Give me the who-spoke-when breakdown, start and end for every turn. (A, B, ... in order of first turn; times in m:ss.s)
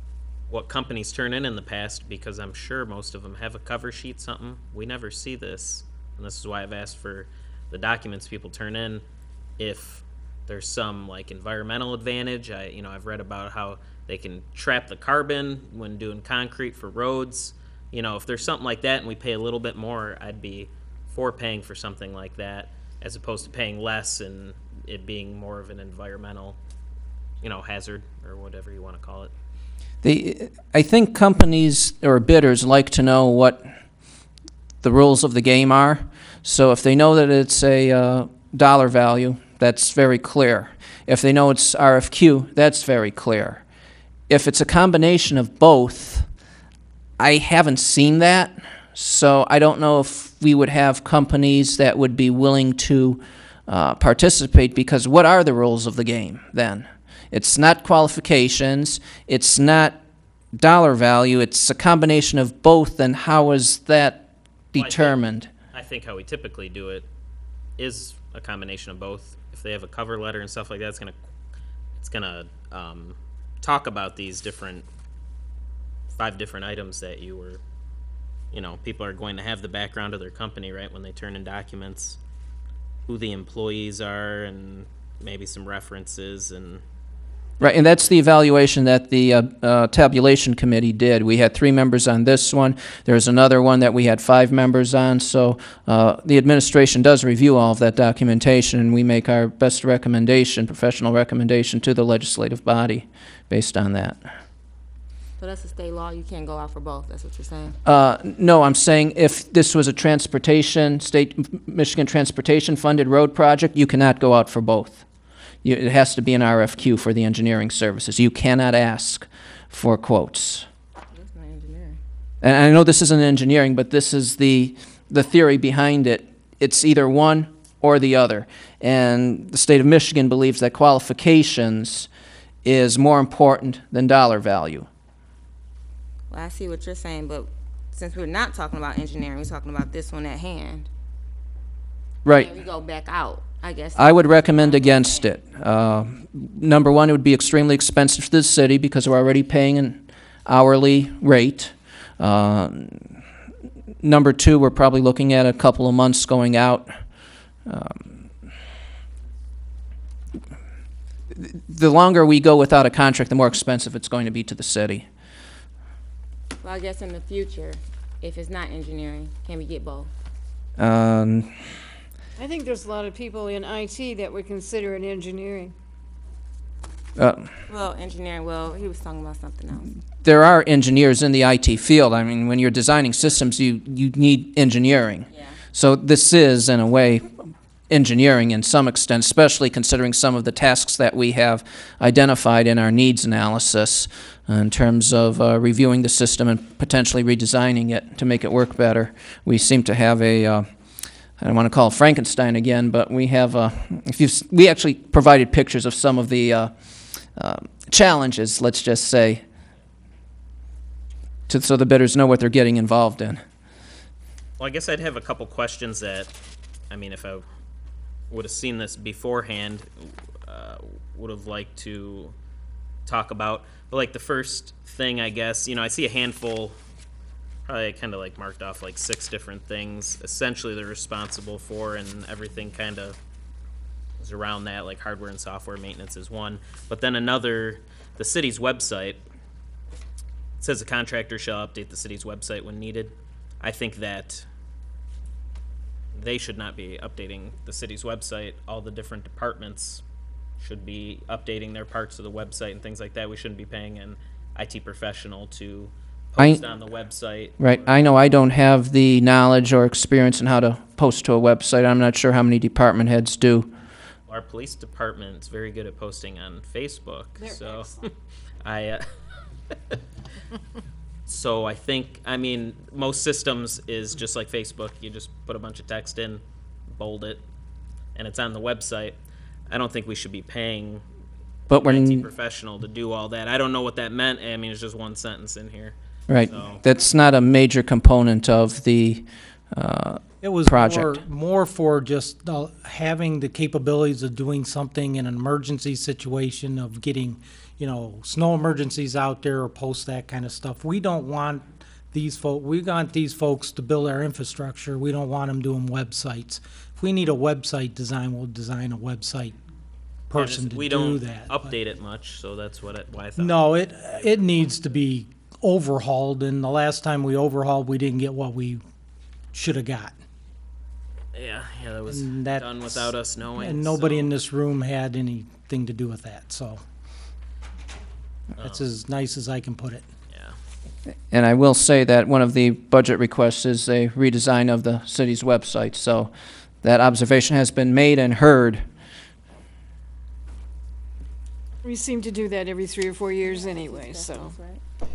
0:00.5-0:09.0 A
0:09.6-0:26.6 A
0:27.4-0:29.3 A
0:30.0-0:33.7 B
0:34.8-0:43.6 B
0:44.3-0:46.3 B
0:47.2-1:00.0 B
1:00.5-1:05.5 B
1:04.8-1:07.0 A
1:07.8-1:11.2 A
1:12.0-1:14.8 A
1:16.1-1:17.6 A
1:18.5-1:22.2 A
1:23.1-1:26.8 A
1:27.6-1:44.3 B
1:27.6-1:28.1 A
1:45.4-1:47.8 C
1:47.8-1:55.0 B
1:55.6-2:00.7 B
2:01.1-2:02.0 C
2:02.4-2:12.1 B
2:12.6-2:14.9 B
2:16.3-2:20.9 C
2:22.2-2:22.5 B
2:22.3-2:25.3 C
2:24.0-2:33.2 B
2:34.0-2:37.0 B
2:37.6-2:38.3 B
2:41.3-2:45.1 B
2:46.6-2:50.1 C
2:50.8-2:51.8 B
2:52.4-2:55.7 D
2:57.2-2:57.5 B
2:57.7-2:59.9 C
3:00.2-3:20.7 B
3:05.3-3:05.6 C
3:21.4-3:29.4 B
3:31.5-3:33.4 B
3:34.6-3:36.3 A
3:36.9-3:37.4 A
3:38.3-3:42.3 A
3:43.0-3:46.8 A
3:47.7-3:53.2 A
3:54.2-3:59.2 A
4:00.6-4:04.5 A
4:06.1-4:10.0 A
4:10.6-4:18.2 A
4:16.4-4:16.6 B
4:17.6-4:23.7 B
4:24.3-4:28.1 A
4:27.4-4:28.0 D
4:28.6-4:29.0 A
4:31.3-4:37.4 A
4:38.1-4:39.2 A
4:39.7-4:41.0 A
4:41.7-4:42.3 B
4:41.7-4:45.9 A
4:46.3-4:51.2 B
4:46.5-4:46.9 A
4:50.4-5:09.6 E
5:10.3-5:11.7 E
5:10.3-5:14.6 A
5:13.4-5:18.8 E
5:19.5-5:20.2 E
5:21.3-5:24.4 A
5:22.1-5:26.8 E
5:28.6-5:28.9 A
5:28.6-5:30.1 E
5:30.3-5:30.6 A
5:31.3-5:38.8 B
5:41.8-5:44.6 D
5:43.4-5:44.8 C